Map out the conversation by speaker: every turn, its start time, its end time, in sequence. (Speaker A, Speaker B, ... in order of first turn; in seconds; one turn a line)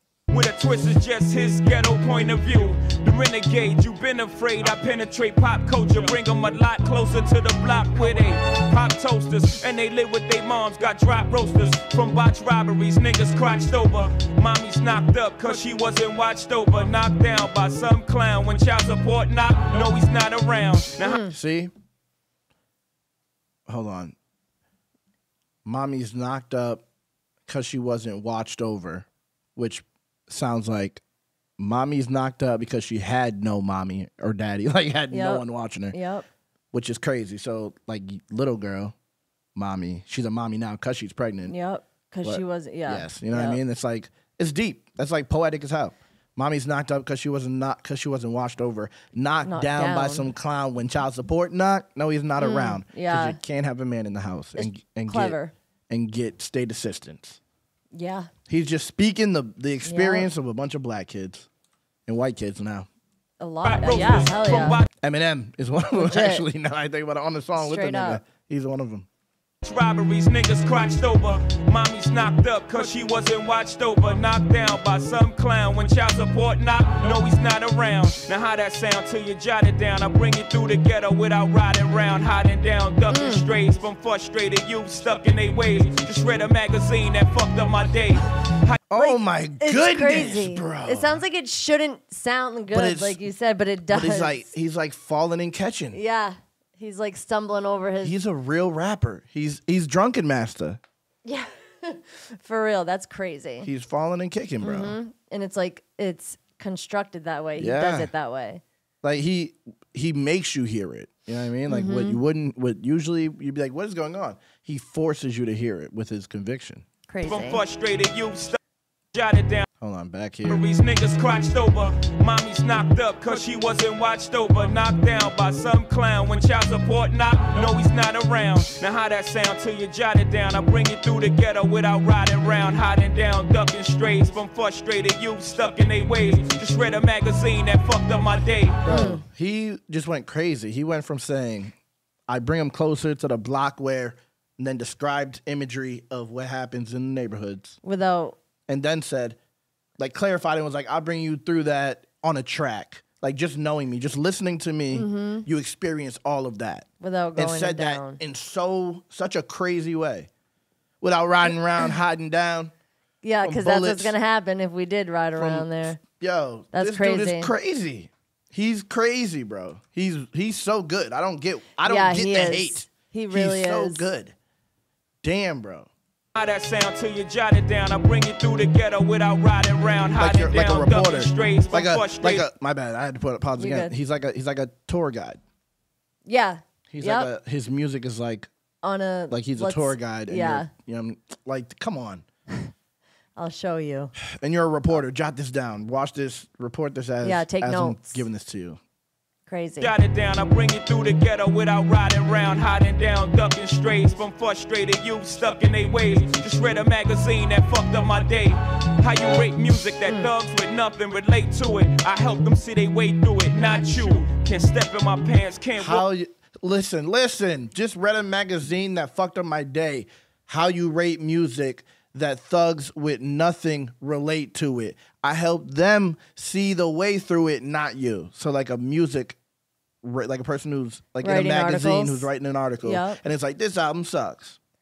Speaker A: 0.3-21.3
Speaker B: 21.0-21.3
Speaker C: 21.3-21.7
Speaker C: 23.7-24.1
Speaker C: 25.6-26.8
Speaker C: 27.5-31.0
Speaker C: 31.6-36.0
Speaker B: 35.1-36.2
Speaker C: 36.7-38.9
Speaker C: 39.5-41.5
Speaker B: 41.5-43.6
Speaker C: 42.2-55.4
Speaker B: 49.4-50.3
Speaker B: 52.4-53.4
Speaker B: 54.5-55.5
Speaker C: 55.9-57.4
Speaker B: 57.9-58.3
Speaker C: 58.5-61.5
Speaker B: 59.8-60.3
Speaker C: 62.1-62.9
Speaker B: 63.4-64.8
Speaker A: 63.6-64.9
Speaker C: 65.0-69.0
Speaker B: 66.0-66.4
Speaker B: 67.6-68.2
Speaker A: 69.6-88.8
Speaker B: 83.1-83.5
Speaker C: 88.9-91.2
Speaker B: 89.0-94.5
Speaker C: 92.7-93.2
Speaker C: 93.9-96.0
Speaker B: 95.9-98.2
Speaker C: 98.0-100.8
Speaker B: 101.2-103.7
Speaker C: 103.6-105.0
Speaker B: 104.6-108.6
Speaker C: 107.6-108.1
Speaker C: 109.0-116.8
Speaker B: 111.7-112.2
Speaker B: 117.1-117.6
Speaker A: 117.2-118.6
Speaker A: 119.1-119.7
Speaker C: 119.8-120.6
Speaker A: 120.4-138.8
Speaker C: 138.8-141.7
Speaker B: 138.9-139.2
Speaker C: 142.3-147.8
Speaker B: 147.8-148.4
Speaker C: 148.7-149.4
Speaker C: 150.0-160.3
Speaker B: 154.9-155.4
Speaker B: 157.0-158.2
Speaker C: 161.0-162.7
Speaker B: 163.2-166.0
Speaker C: 163.4-164.1
Speaker C: 165.3-174.3
Speaker B: 166.7-167.5
Speaker B: 171.8-174.1
Speaker C: 175.2-175.9
Speaker A: 176.3-182.4
Speaker C: 180.1-185.4
Speaker B: 183.6-183.9
Speaker B: 186.2-187.3
Speaker C: 186.9-188.5
Speaker B: 188.8-190.7
Speaker C: 189.3-192.2
Speaker B: 193.4-194.1
Speaker C: 194.2-198.8
Speaker B: 197.2-198.2
Speaker B: 199.5-199.9
Speaker A: 199.8-216.0
Speaker B: 210.1-210.3
Speaker C: 215.8-229.4
Speaker C: 230.0-234.6
Speaker B: 231.2-232.3
Speaker B: 232.8-233.2